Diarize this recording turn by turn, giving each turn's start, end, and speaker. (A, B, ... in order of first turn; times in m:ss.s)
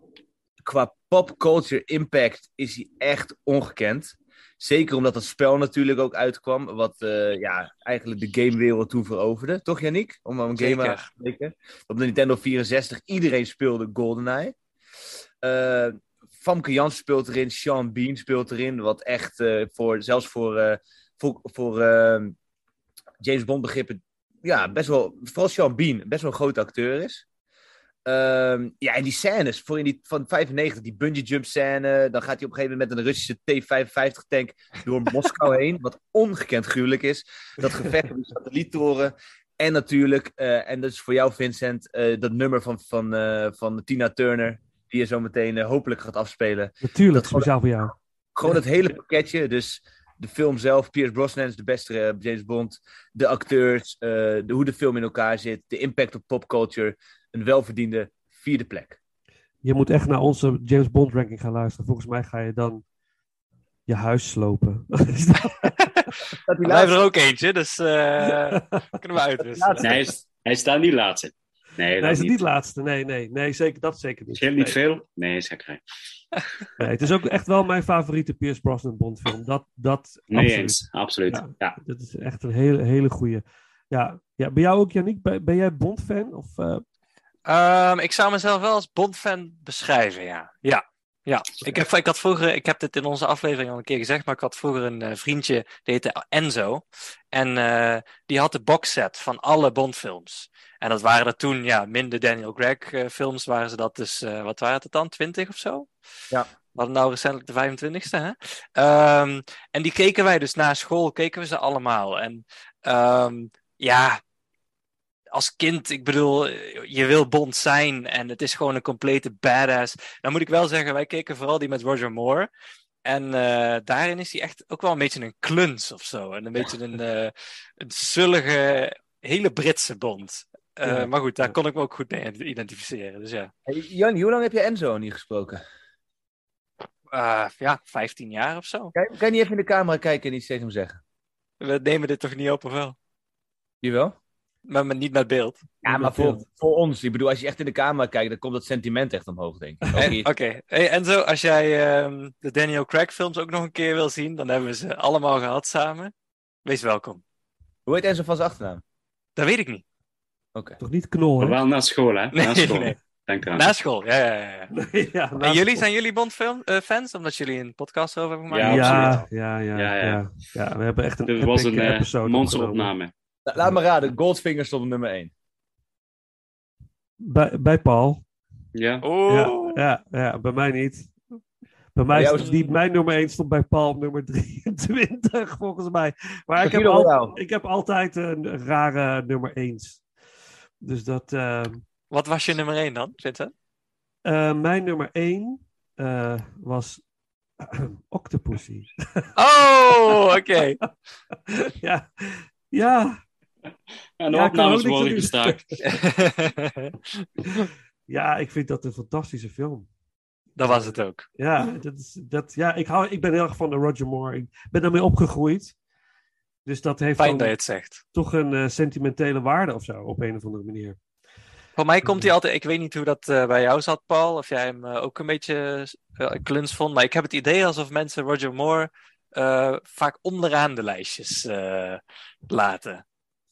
0:00.6-0:14.6 A
0:10.6-0:11.1 B
0:15.4-0:22.4 A
0:23.2-0:27.2 A
0:28.0-0:59.0 A
0:46.8-0:47.9 C
0:59.6-1:02.8 C
1:03.9-1:05.7 C
1:06.4-1:07.0 A
1:06.6-1:10.0 B
1:09.4-1:10.0 A
1:09.8-1:12.4 D
1:12.0-1:14.8 C
1:14.4-1:15.8 D
1:16.8-1:26.8 C
1:20.3-1:21.8 D
1:27.5-1:45.9 B
1:46.7-1:54.2 B
1:55.3-2:02.5 B
2:03.0-2:13.5 B
2:10.8-2:11.6 C
2:13.7-2:15.6 A
2:17.1-2:18.9 B
2:19.0-2:21.0 A
2:21.6-2:23.0 B
2:23.8-2:24.2 A
2:24.7-2:25.6 B
2:25.8-2:30.3 A
2:25.9-2:26.4 C
2:30.0-2:36.1 B
2:36.6-2:37.2 B
2:37.9-2:38.8 A
2:39.4-2:39.8 B
2:40.6-2:40.8 A
2:40.8-2:41.6 C
2:41.4-2:43.7 D
2:42.3-2:43.0 B
2:43.5-2:44.7 B
2:44.7-2:45.8 C
2:45.4-2:49.3 B
2:48.5-2:49.2 D
2:48.6-2:52.9 C
2:49.8-2:50.2 D
2:51.3-2:53.1 D
2:53.5-2:55.3 A
2:57.2-2:58.2 C
2:58.7-2:59.0 D
2:59.0-2:59.8 B
2:59.3-3:01.2 C
3:02.0-3:10.0 C
3:02.1-3:02.6 A
3:06.6-3:07.4 A
3:10.8-3:11.8 C
3:12.1-3:13.5 B
3:14.2-3:17.0 C
3:17.6-3:19.3 C
3:19.4-3:20.8 B
3:21.5-3:23.2 C
3:24.2-3:25.6 D
3:24.3-3:25.6 C
3:25.8-3:27.2 B
3:28.1-3:29.9 C
3:30.6-3:31.3 B
3:30.6-3:35.7 C
3:36.7-3:37.6 C
3:37.2-3:38.0 B
3:38.1-3:41.0 C
3:41.8-3:53.0 B